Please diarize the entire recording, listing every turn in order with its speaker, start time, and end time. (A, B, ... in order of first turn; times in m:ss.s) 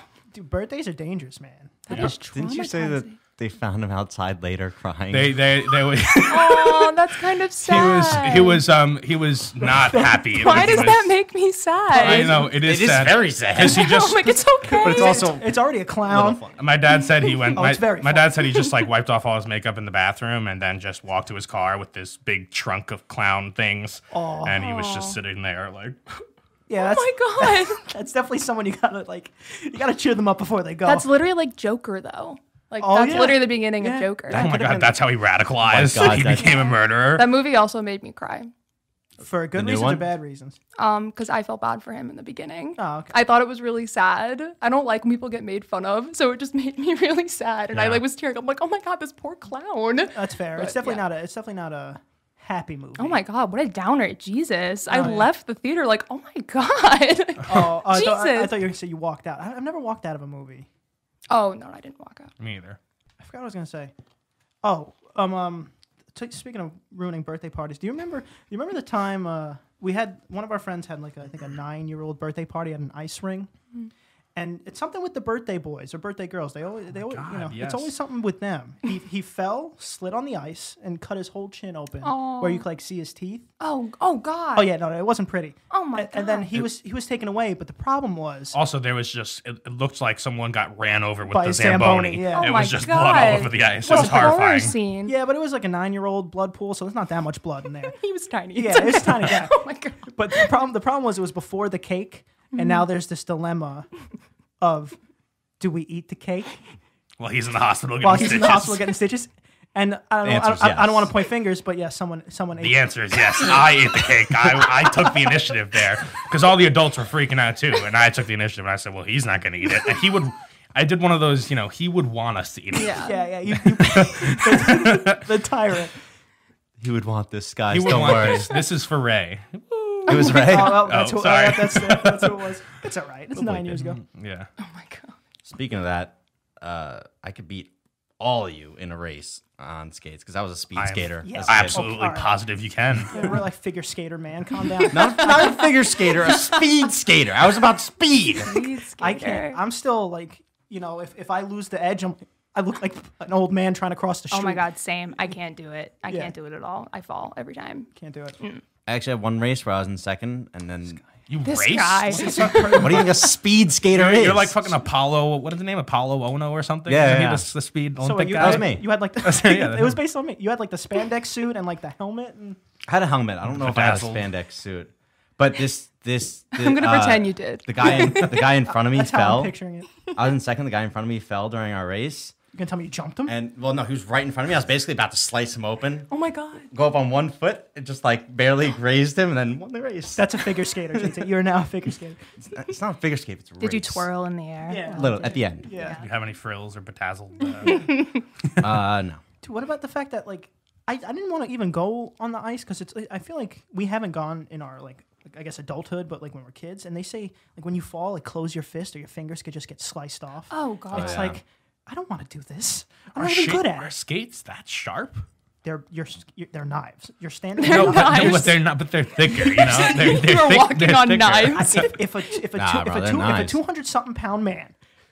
0:00.3-0:02.1 A
0:01.9-0:03.2 B
0:01.9-0:05.4 C
0:05.1-0:07.0 D
0:06.3-0:08.6 B
0:07.6-0:11.1 D
0:09.6-0:10.9 A
0:10.3-0:12.5 B
0:11.9-0:14.4 D
0:12.0-0:12.2 A
0:12.1-0:14.0 C
0:13.6-0:15.3 B
0:14.6-0:16.4 A
0:14.7-0:16.5 C
0:16.5-0:26.0 D
0:17.2-0:17.5 B
0:17.6-0:18.3 A
0:24.1-0:24.6 A
0:24.5-0:25.2 B
0:26.7-0:31.1 A
0:26.8-0:27.8 B
0:30.8-0:34.5 B
0:32.8-0:35.0 A
0:34.3-0:37.3 D
0:35.6-0:36.6 C
0:36.4-0:38.5 B
0:39.2-0:40.6 A
0:39.5-0:40.0 C
0:40.8-0:51.0 B
0:42.8-0:43.1 A
0:47.7-0:48.0 D
0:50.1-0:53.2 A
0:53.0-0:58.6 B
0:54.9-0:55.3 A
0:57.4-1:00.7 A
1:01.3-1:02.3 B
1:02.4-1:02.8 D
1:03.2-1:03.9 A
1:04.6-1:13.5 A
1:14.3-1:23.4 A
1:16.9-1:17.9 D
1:22.0-1:22.6 B
1:23.6-1:24.7 B
1:24.5-1:28.6 A
1:25.7-1:26.5 B
1:28.5-1:34.8 D
1:31.3-1:34.5 A
1:32.3-1:35.1 B
1:35.0-1:38.0 A
1:37.9-1:40.5 B
1:38.5-1:43.9 A
1:42.5-1:42.8 B
1:44.6-1:45.0 A
1:45.6-1:46.5 A
1:47.2-1:48.8 D
1:48.0-1:52.9 A
1:50.2-1:51.1 C
1:52.6-2:05.2 D
2:02.7-2:03.2 B
2:03.0-2:05.9 A
2:06.8-2:08.6 C
2:07.7-2:12.5 D
2:10.1-2:10.9 C
2:10.1-2:14.0 A
2:13.4-2:14.5 D
2:14.6-2:15.2 B
2:15.4-2:21.8 C
2:20.8-2:23.3 D
2:21.2-2:22.4 A
2:23.1-2:25.7 A
2:24.7-2:26.4 B
2:24.9-2:28.6 C
2:28.4-2:29.6 B
2:29.0-2:34.6 A
2:34.3-2:38.6 B
2:36.1-2:36.3 A
2:37.9-2:38.4 A
2:38.9-2:41.0 C
2:41.3-2:43.2 D
2:41.4-2:43.1 B
2:42.1-2:43.1 A
2:42.5-2:44.8 C
2:43.9-2:50.0 D
2:46.9-2:47.5 C
2:48.0-2:52.6 A
2:48.4-2:48.8 C
2:52.9-2:59.5 C
2:53.4-2:54.3 D
2:56.5-2:58.5 B
2:57.8-3:00.0 A
3:00.1-3:02.3 C
3:02.5-3:03.3 A
3:03.2-3:06.1 C
3:06.1-3:06.7 B
3:06.7-3:11.2 C
3:10.1-3:12.2 A
3:12.4-3:14.1 C
3:13.6-3:16.0 B
3:14.7-3:16.0 A
3:14.9-3:15.7 C
3:16.0-3:18.1 D
3:17.6-3:18.2 B
3:18.6-3:19.2 C
3:19.4-3:33.9 A
3:30.5-3:31.3 B
3:30.9-3:31.4 C
3:33.2-3:35.2 D
3:35.6-3:38.6 A
3:37.6-3:38.6 B
3:37.7-3:41.9 D
3:39.2-3:41.9 B
3:41.5-3:44.7 A
3:42.5-3:43.6 C